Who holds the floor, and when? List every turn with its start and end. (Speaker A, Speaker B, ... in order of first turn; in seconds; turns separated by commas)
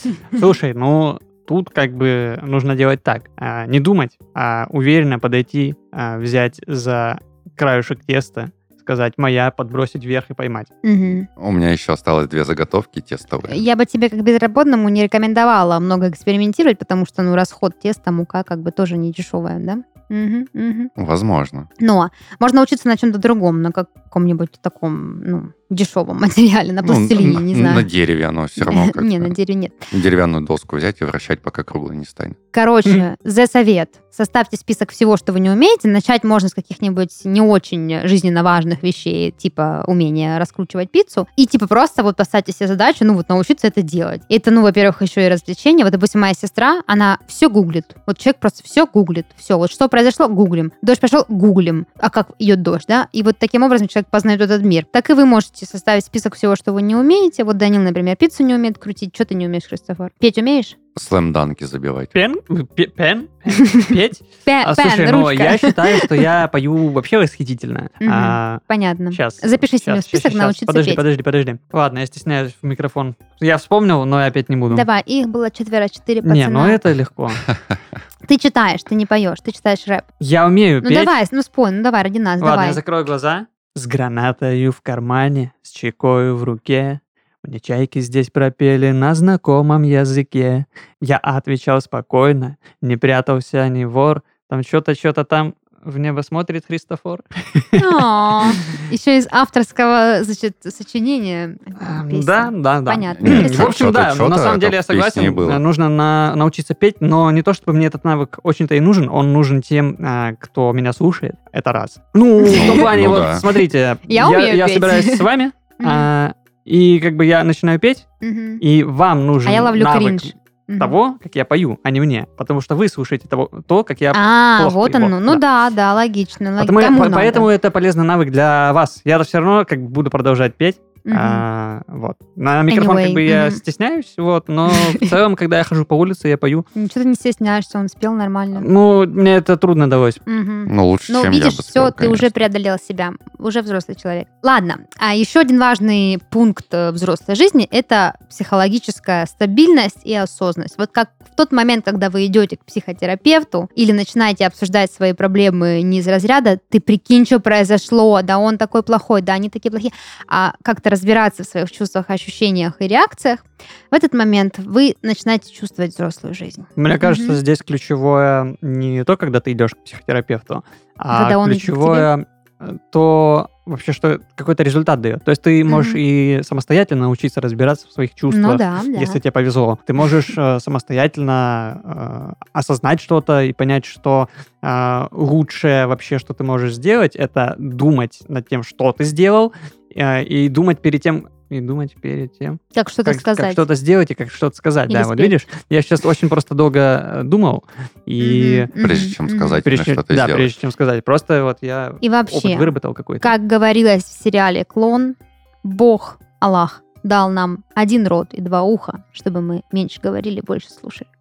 Speaker A: 0.3-10.7, Speaker B: 10.8-11.3, Speaker C: 11.4-13.6, Speaker B: 13.5-20.9, Speaker C: 21.0-21.7, Speaker B: 21.8-27.9, Speaker C: 26.8-29.3, Speaker B: 28.6-29.9, Speaker C: 29.9-32.4, Speaker B: 32.5-60.8, Speaker C: 60.9-62.1, Speaker A: 62.1-74.8, Speaker B: 63.5-66.3, Speaker B: 68.0-71.0, Speaker B: 74.7-76.8, Speaker A: 76.2-77.4, Speaker C: 77.5-77.8, Speaker B: 78.2-80.1, Speaker A: 80.2-81.1, Speaker B: 80.8-82.8, Speaker A: 82.4-98.8, Speaker B: 97.8-103.8, Speaker A: 101.8-118.1, Speaker C: 103.2-105.6, Speaker B: 112.4-112.9, Speaker C: 112.5-113.4, Speaker B: 114.1-115.2, Speaker B: 115.8-116.1, Speaker B: 118.2-118.6, Speaker A: 118.6-125.4, Speaker B: 119.4-121.0, Speaker B: 124.1-127.5, Speaker A: 126.6-136.7, Speaker B: 131.1-131.4, Speaker B: 132.7-133.6, Speaker B: 134.7-135.1, Speaker B: 136.8-138.7, Speaker A: 138.6-140.2, Speaker B: 140.3-167.4, Speaker C: 140.7-142.3, Speaker A: 166.8-198.7, Speaker B: 171.1-172.1, Speaker B: 175.7-176.0, Speaker B: 178.3-179.2, Speaker B: 192.7-193.6, Speaker B: 194.9-195.3, Speaker B: 198.2-199.6, Speaker C: 198.8-200.5, Speaker A: 199.6-203.3, Speaker B: 202.0-211.1